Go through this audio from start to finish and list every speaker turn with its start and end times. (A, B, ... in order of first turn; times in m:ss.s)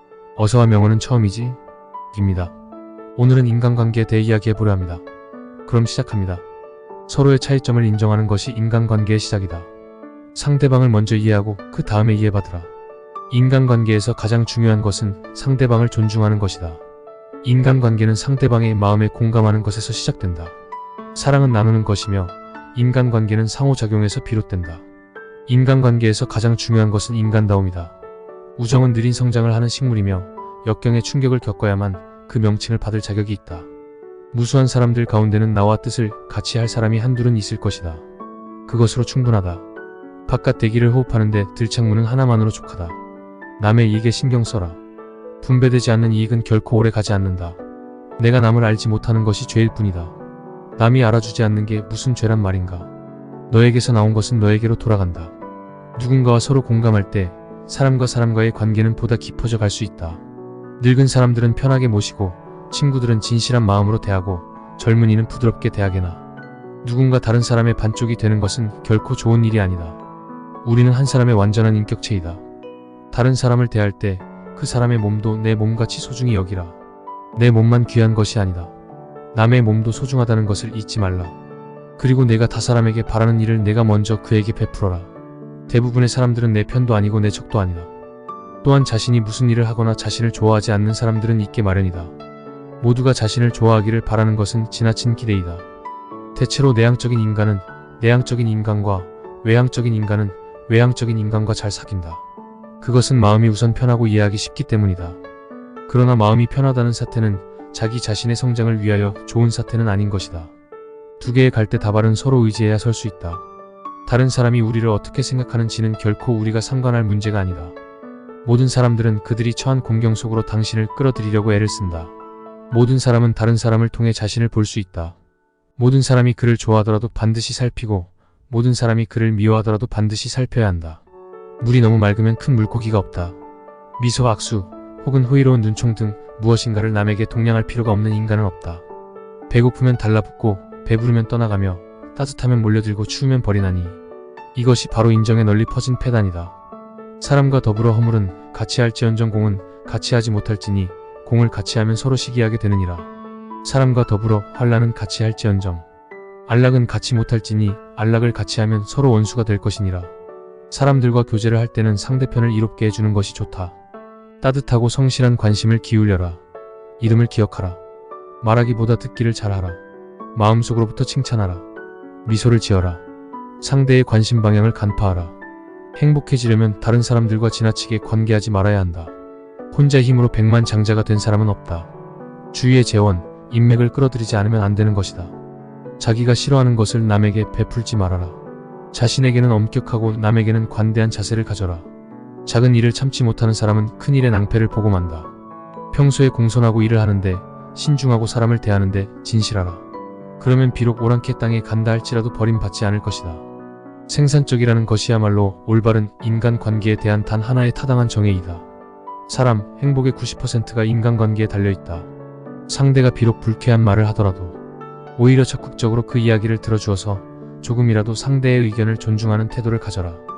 0:00.4-0:01.6 A
0:02.1-0:02.5 A
0:03.2-0:05.0 A
0:05.6-0:06.4 A
0:07.1-0:09.7 A
0:10.3-0:12.7 A
0:13.3-0:16.8 A
0:17.4-0:20.5 A
0:21.1-0:24.8 A
0:25.5-0:27.9 A
0:28.6-0:33.7 A
0:34.3-0:38.0 A
0:38.7-0:39.6 A
0:40.3-0:43.0 A
0:43.6-0:44.8 A
0:45.4-0:47.6 A
0:48.2-0:50.1 A
0:50.8-0:52.9 A
0:53.5-0:55.3 A
0:56.0-1:00.2 A
1:00.8-1:06.2 A
1:06.8-1:10.0 A
1:10.6-1:12.4 A
1:13.1-1:16.8 A
1:17.4-1:18.7 A
1:19.3-1:21.4 A
1:22.0-1:25.1 A
1:25.7-1:27.9 A
1:28.6-1:32.1 A
1:32.8-1:35.6 A
1:36.3-1:42.2 A
1:42.8-1:45.2 A
1:45.9-1:50.5 A
1:51.2-1:53.4 A
1:54.0-1:57.8 A
1:58.4-2:02.1 A
2:02.7-2:05.2 A
2:05.8-2:11.0 A
2:11.6-2:13.4 A
2:14.0-2:18.8 A
2:19.5-2:24.0 A
2:24.5-2:26.5 A
2:27.2-2:33.1 A
2:33.6-2:35.8 A
2:36.5-2:40.1 A
2:40.7-2:43.7 A
2:44.4-2:46.4 A
2:47.0-2:47.8 A
2:48.4-2:49.8 A
2:50.3-2:51.6 A
2:52.2-2:53.0 A
2:53.6-2:55.3 A
2:56.0-2:59.1 A
2:59.7-3:01.9 A
3:02.5-3:05.3 A
3:06.0-3:08.4 A
3:08.9-3:11.9 A
3:12.4-3:15.3 A
3:15.9-3:19.8 A
3:20.4-3:23.4 A
3:24.1-3:28.6 A
3:29.3-3:32.1 A
3:32.7-3:34.6 A
3:35.2-3:40.2 A